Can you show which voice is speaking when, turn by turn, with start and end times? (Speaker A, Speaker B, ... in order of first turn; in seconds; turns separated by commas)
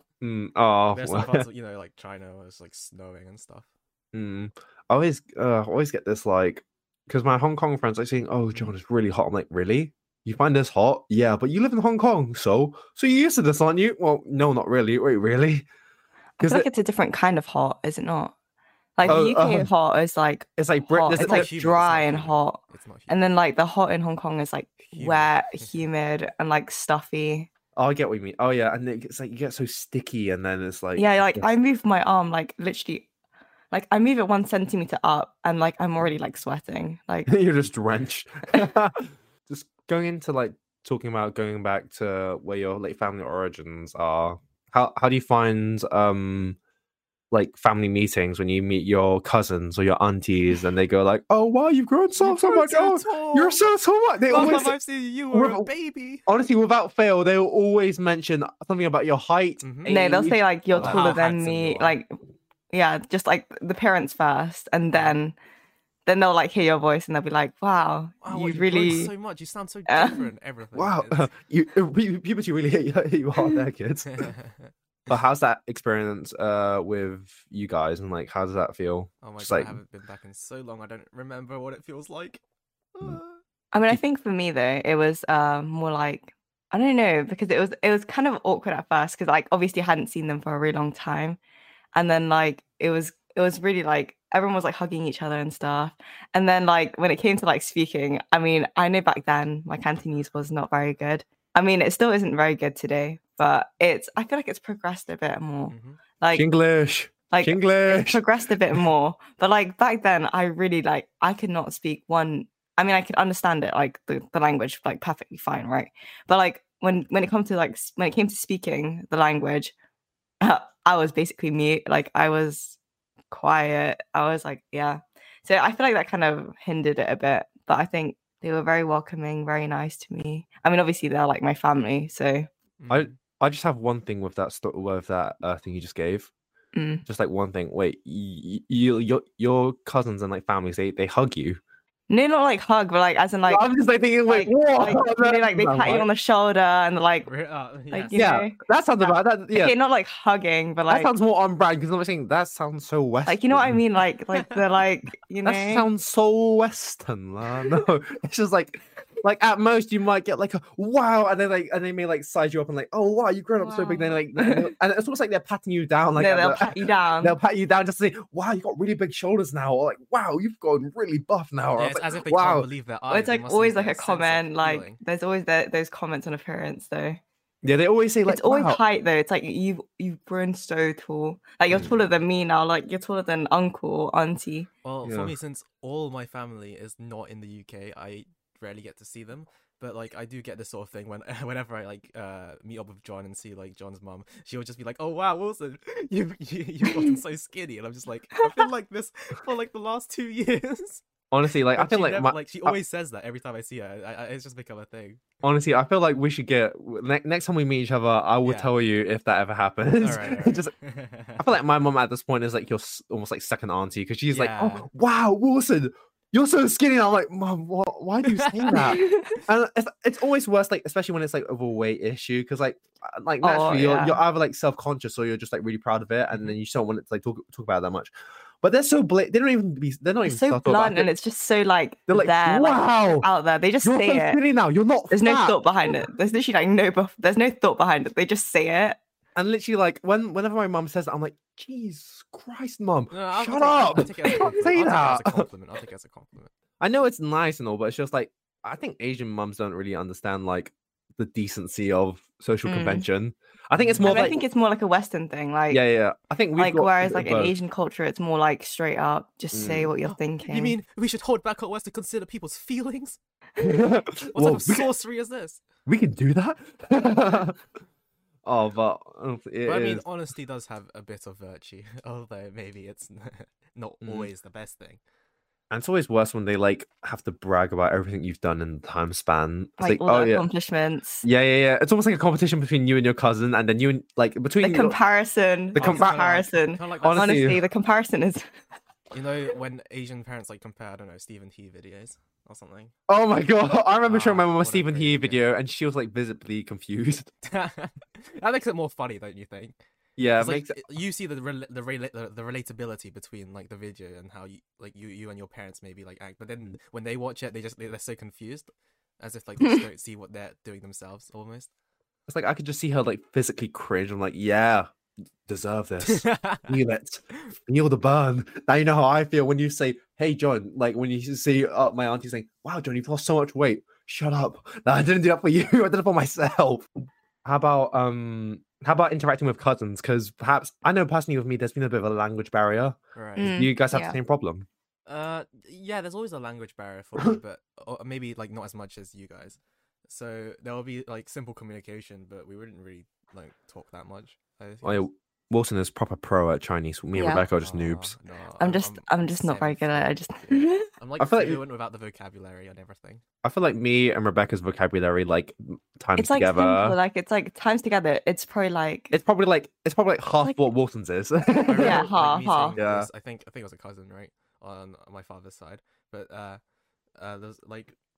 Speaker A: 0.2-1.5, Speaker B: 0.9-3.7, Speaker A: 4.1-15.7, Speaker C: 16.4-18.3, Speaker A: 16.4-16.6, Speaker C: 19.0-27.5, Speaker A: 19.0-19.7, Speaker A: 20.6-21.5, Speaker B: 21.2-23.2, Speaker B: 24.9-25.9, Speaker A: 27.8-31.4, Speaker C: 30.9-33.1, Speaker C: 33.7-37.3, Speaker A: 37.3-46.6, Speaker A: 47.3-54.8, Speaker B: 52.2-53.6, Speaker B: 54.2-56.2, Speaker A: 55.3-55.7, Speaker A: 56.2-61.2, Speaker B: 59.6-59.9, Speaker C: 59.8-62.1, Speaker B: 60.8-62.0, Speaker C: 62.7-65.3, Speaker B: 64.9-65.2, Speaker C: 66.0-69.1, Speaker B: 68.2-71.3, Speaker C: 69.9-70.2, Speaker A: 70.7-74.3, Speaker B: 74.1-74.7, Speaker A: 75.1-79.8, Speaker B: 79.2-82.4, Speaker B: 82.9-83.4, Speaker C: 83.7-91.4, Speaker C: 91.9-106.4, Speaker B: 105.7-106.0, Speaker A: 106.3-108.8, Speaker C: 107.3-119.7, Speaker C: 120.4-122.8, Speaker C: 123.3-132.5, Speaker B: 132.8-133.1, Speaker A: 132.9-136.3, Speaker C: 136.7-137.0, Speaker A: 137.1-141.6, Speaker C: 142.1-143.7, Speaker A: 143.5-146.1, Speaker C: 144.3-147.3, Speaker B: 147.2-148.3, Speaker C: 147.9-151.1, Speaker A: 148.1-149.7, Speaker A: 150.9-153.8, Speaker C: 153.2-155.8, Speaker A: 155.4-172.7, Speaker C: 163.6-164.7, Speaker C: 166.2-167.3, Speaker B: 171.8-175.0, Speaker C: 173.1-177.2, Speaker A: 177.6-178.8, Speaker C: 178.3-184.7, Speaker B: 184.8-201.0, Speaker A: 185.0-185.3, Speaker A: 201.3-202.8, Speaker B: 201.7-205.2, Speaker A: 205.4-210.7, Speaker B: 208.4-208.7, Speaker B: 210.0-211.4, Speaker A: 211.4-231.1, Speaker B: 214.3-214.9, Speaker B: 218.2-218.9, Speaker C: 218.9-219.3, Speaker C: 223.4-224.2, Speaker C: 230.2-234.4, Speaker A: 232.1-233.3, Speaker A: 233.8-236.0, Speaker C: 235.1-239.0, Speaker A: 239.3-245.4, Speaker B: 243.1-246.5, Speaker A: 246.8-254.4, Speaker C: 252.6-253.1, Speaker B: 253.8-254.3, Speaker C: 254.0-255.8, Speaker A: 255.7-257.5, Speaker C: 256.6-260.8, Speaker A: 259.5-259.9, Speaker B: 260.0-263.2, Speaker A: 263.6-264.9, Speaker B: 264.3-265.6, Speaker A: 265.9-267.6, Speaker A: 268.4-270.0, Speaker B: 269.6-275.0, Speaker A: 274.0-274.3, Speaker A: 275.7-280.4, Speaker C: 279.8-281.2, Speaker A: 281.2-285.0, Speaker C: 284.6-288.5, Speaker A: 285.7-286.3, Speaker B: 285.8-287.6, Speaker A: 287.0-287.6, Speaker B: 289.1-292.9, Speaker A: 293.1-297.3, Speaker B: 294.1-295.4, Speaker B: 297.4-299.7, Speaker A: 300.2-300.8, Speaker B: 300.4-311.7, Speaker A: 312.3-314.9, Speaker A: 315.5-326.9, Speaker B: 316.0-316.8, Speaker A: 327.4-334.6, Speaker B: 333.1-333.5, Speaker C: 333.4-334.2, Speaker B: 335.1-345.1, Speaker A: 344.8-348.1, Speaker C: 347.1-347.4, Speaker B: 347.6-353.2, Speaker C: 348.6-350.9, Speaker A: 351.2-351.6, Speaker A: 353.4-356.9, Speaker C: 356.2-359.1, Speaker A: 359.1-362.2, Speaker B: 361.6-366.6, Speaker C: 361.8-362.8, Speaker A: 362.8-363.1, Speaker B: 367.1-367.9